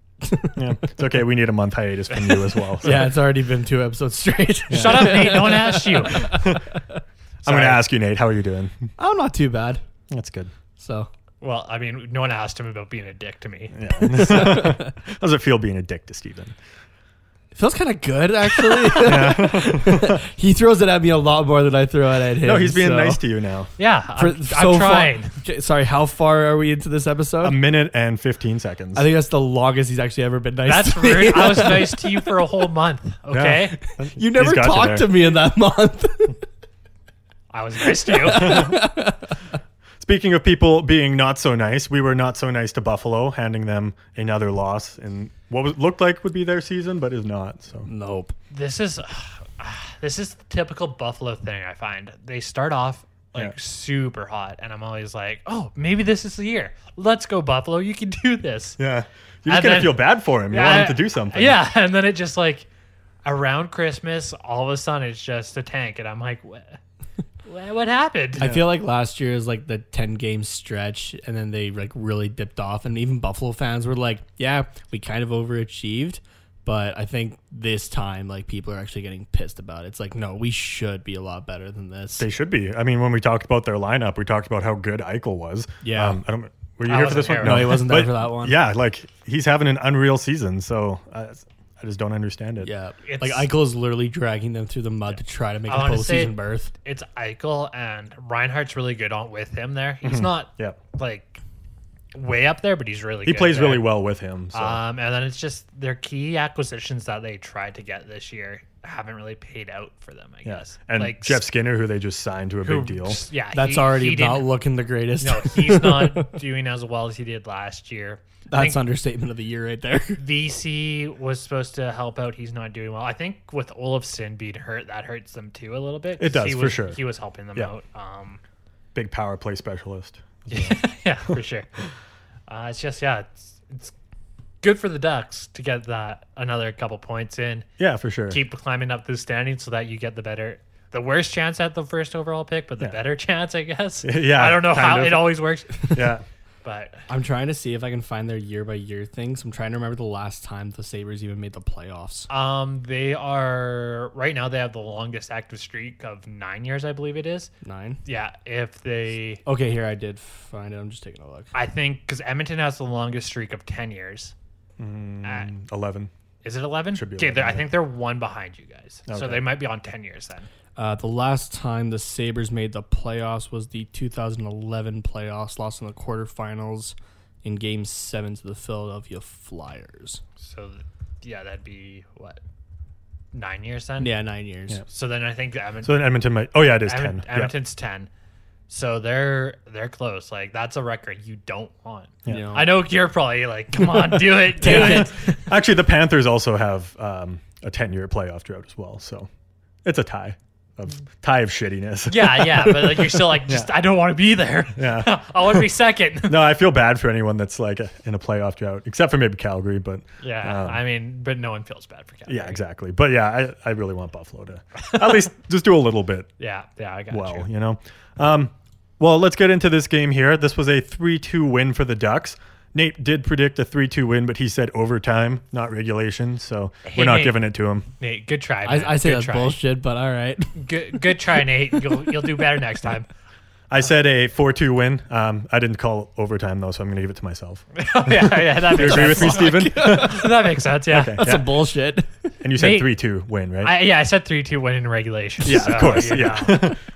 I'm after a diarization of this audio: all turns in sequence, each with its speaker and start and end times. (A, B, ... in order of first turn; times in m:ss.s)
0:00.2-0:00.6 A
0:00.6-0:03.0 B
0:02.8-0:07.0 A
0:04.7-0:05.4 B
0:04.7-0:06.4 C
0:06.3-0:06.7 B
0:07.4-0:07.8 C
0:07.4-0:08.9 B
0:09.0-0:09.8 A
0:10.1-0:10.5 B
0:10.8-0:11.1 A
0:11.4-0:13.8 C
0:13.7-0:16.6 B
0:14.0-0:14.9 A
0:17.5-0:23.2 A
0:18.9-0:20.2 B
0:22.4-0:23.7 B
0:23.8-0:25.4 C
0:24.2-0:27.6 A
0:27.4-0:29.0 B
0:28.9-0:32.2 A
0:30.7-0:33.8 C
0:33.3-0:35.1 B
0:34.1-0:36.4 A
0:37.5-0:38.8 C
0:37.9-0:39.4 A
0:38.4-0:38.8 B
0:40.0-0:47.9 B
0:47.8-0:48.3 A
0:48.5-0:58.8 C
0:58.8-1:01.6 B
0:59.5-1:02.6 C
1:03.2-1:06.8 C
1:07.4-1:08.5 C
1:08.4-1:22.2 A
1:22.2-1:32.7 B
1:25.8-1:26.2 A
1:26.8-1:27.9 C
1:27.4-1:28.6 A
1:32.6-1:36.7 A
1:33.0-1:33.5 C
1:35.7-1:41.4 C
1:40.0-1:40.8 B
1:42.1-1:43.9 C
1:43.2-1:44.8 B
1:44.5-1:51.4 C
1:50.4-1:53.2 B
1:52.6-1:54.5 C
1:53.5-1:56.3 A
1:55.2-1:58.8 C
1:58.5-2:00.2 A
2:00.2-2:08.4 C
2:06.2-2:07.0 B
2:08.9-2:10.7 B
2:10.5-2:11.7 C
2:12.5-2:13.9 C
2:14.6-2:17.7 C
2:17.8-2:18.4 B
2:18.3-2:26.1 C
2:24.0-2:25.3 B
2:25.9-2:26.2 B
2:26.6-2:27.1 C
2:27.1-2:32.3 A
2:32.3-2:37.5 C
2:37.6-2:38.0 A
2:38.0-2:39.4 C
2:39.4-2:41.5 A
2:41.5-2:44.3 C
2:44.8-2:46.1 B
2:45.2-2:45.5 C
2:46.4-2:50.5 C
2:46.9-2:47.7 B
2:49.1-2:49.4 B
2:50.8-3:00.2 A
3:00.4-3:02.4 C
3:03.3-3:04.1 C
3:04.0-3:04.8 A
3:04.9-3:06.1 C
3:05.8-3:07.5 B
3:06.8-3:08.1 C
3:08.7-3:15.5 C
3:12.3-3:12.7 A
3:14.1-3:19.3 B
3:14.6-3:15.2 A
3:19.8-3:23.7 B
3:22.1-3:26.5 C
3:24.8-3:25.6 B
3:26.3-3:30.8 B
3:30.2-3:32.6 C
3:32.3-3:36.3 B
3:36.4-3:37.4 C
3:37.1-3:47.9 B
3:46.8-3:47.4 C
3:48.0-3:49.6 C
3:48.6-3:52.3 A
3:50.6-3:53.1 C
3:53.7-4:00.3 B
3:57.7-4:01.2 C
3:58.8-4:00.5 A
4:00.9-4:01.5 B
4:01.0-4:02.1 A
4:02.4-4:03.7 B
4:02.6-4:02.9 C
4:03.6-4:06.8 C
4:05.4-4:06.8 B
4:05.5-4:06.0 A